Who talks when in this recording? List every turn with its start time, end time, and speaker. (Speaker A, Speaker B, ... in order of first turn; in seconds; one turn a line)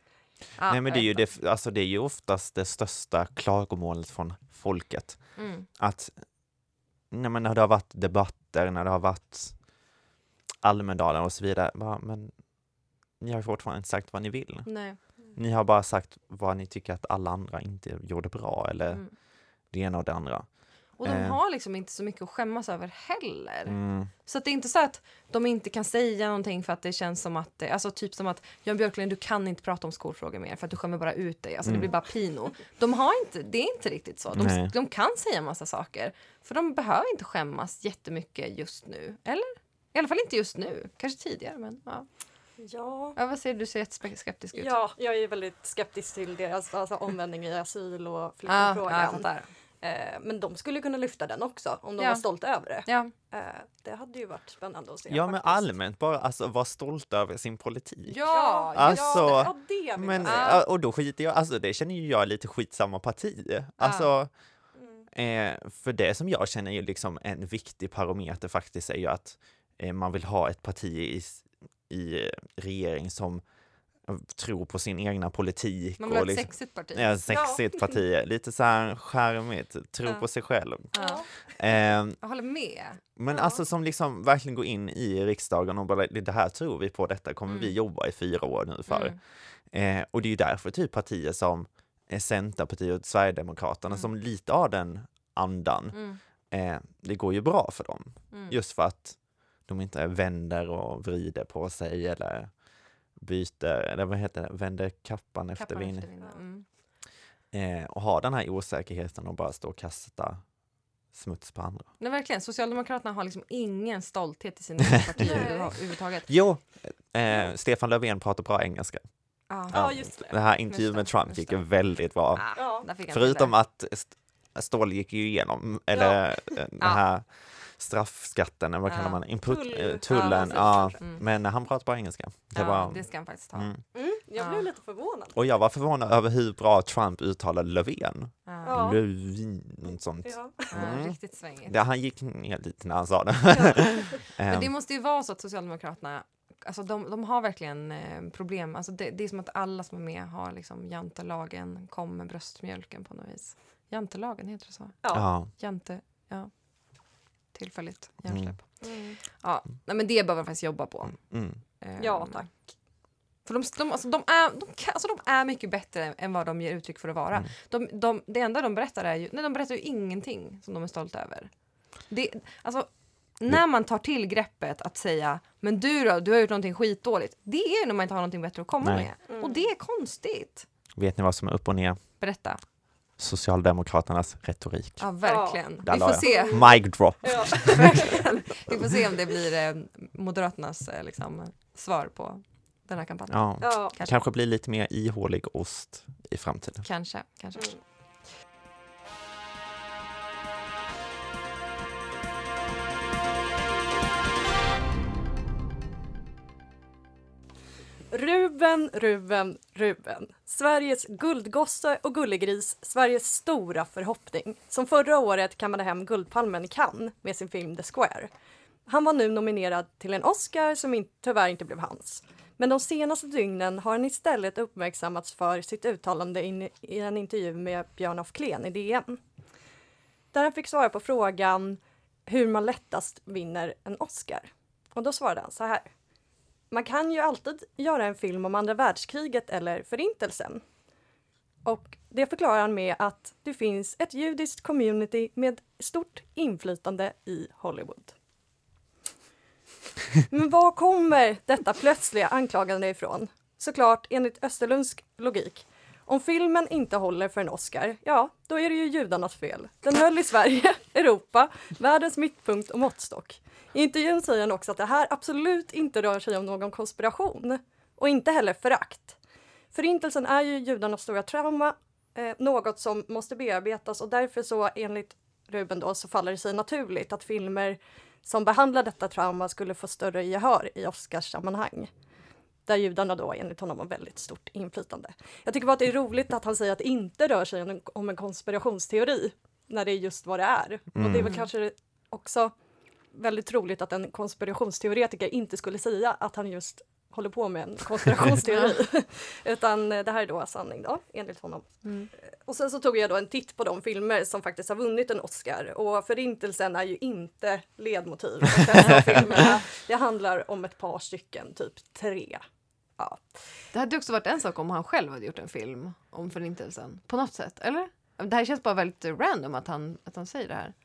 Speaker A: 0.6-1.3
Speaker B: 0.6-6.2
Speaker A: 5.3-5.7
Speaker B: 7.1-9.6
Speaker B: 10.6-12.4
Speaker B: 13.2-19.1
Speaker A: 14.7-15.0
Speaker B: 19.7-20.5
Speaker A: 21.0-42.1
Speaker B: 21.0-21.4
Speaker B: 23.6-24.1
Speaker B: 34.3-34.7
Speaker C: 42.6-43.2
Speaker A: 43.1-44.7
Speaker C: 44.5-49.3
Speaker A: 48.5-49.5
Speaker C: 49.8-55.7
Speaker A: 52.0-52.2
Speaker A: 52.8-53.1
Speaker B: 55.1-64.3
Speaker A: 58.0-59.4
Speaker C: 58.3-60.6
Speaker A: 60.2-60.6
Speaker A: 63.8-64.1
Speaker C: 64.8-65.1
Speaker B: 65.1-73.4
Speaker B: 74.0-82.2
Speaker A: 76.0-77.6
Speaker C: 77.3-77.6
Speaker A: 80.9-81.2
Speaker C: 80.9-81.3
Speaker A: 82.2-83.0
Speaker B: 83.2-102.5
Speaker C: 83.3-83.6
Speaker A: 88.9-89.2
Speaker A: 95.9-96.2
Speaker A: 98.3-98.6
Speaker B: 103.2-106.1
Speaker A: 105.5-106.6
Speaker B: 107.5-110.4
Speaker B: 111.1-111.9
Speaker A: 112.0-116.3
Speaker B: 115.2-115.5
Speaker C: 115.2-115.8
Speaker B: 116.3-119.0
Speaker A: 119.5-120.0
Speaker B: 119.6-133.8
Speaker C: 119.7-120.3
Speaker A: 120.7-121.7
Speaker A: 122.3-123.5
Speaker C: 122.5-122.8
Speaker C: 125.9-126.3
Speaker A: 128.9-129.2
Speaker C: 129.4-131.0
Speaker A: 130.1-131.2
Speaker A: 132.5-133.8
Speaker C: 133.9-135.4
Speaker A: 134.4-134.7
Speaker B: 135.3-144.7
Speaker A: 138.5-138.8
Speaker C: 138.6-139.0
Speaker C: 140.2-140.7
Speaker A: 140.7-141.8
Speaker C: 143.5-144.2
Speaker A: 144.5-156.5
Speaker B: 155.1-155.5
Speaker A: 157.5-162.5
Speaker B: 158.3-158.6
Speaker C: 158.8-159.2
Speaker B: 161.1-161.6
Speaker C: 162.0-162.7
Speaker A: 163.4-171.5
Speaker A: 172.1-180.7
Speaker B: 178.8-179.1
Speaker C: 179.3-179.7
Speaker B: 180.9-182.0
Speaker A: 182.2-182.6
Speaker B: 183.2-185.0
Speaker A: 185.0-186.7
Speaker C: 185.2-186.7
Speaker B: 185.8-188.0
Speaker C: 187.2-188.4
Speaker A: 187.5-194.1
Speaker B: 193.3-196.9
Speaker C: 193.6-193.9
Speaker A: 196.8-197.8
Speaker C: 208.1-218.3
Speaker C: 218.9-229.2
Speaker C: 230.3-235.9
Speaker C: 236.7-240.6
Speaker C: 241.6-248.1
Speaker C: 250.2-269.2
Speaker C: 269.7-281.9
Speaker C: 282.6-292.5
Speaker B: 290.9-291.3
Speaker A: 291.2-291.5
Speaker C: 293.1-312.4
Speaker A: 301.8-302.1
Speaker B: 308.9-309.2
Speaker C: 313.0-313.4
Speaker A: 313.7-320.7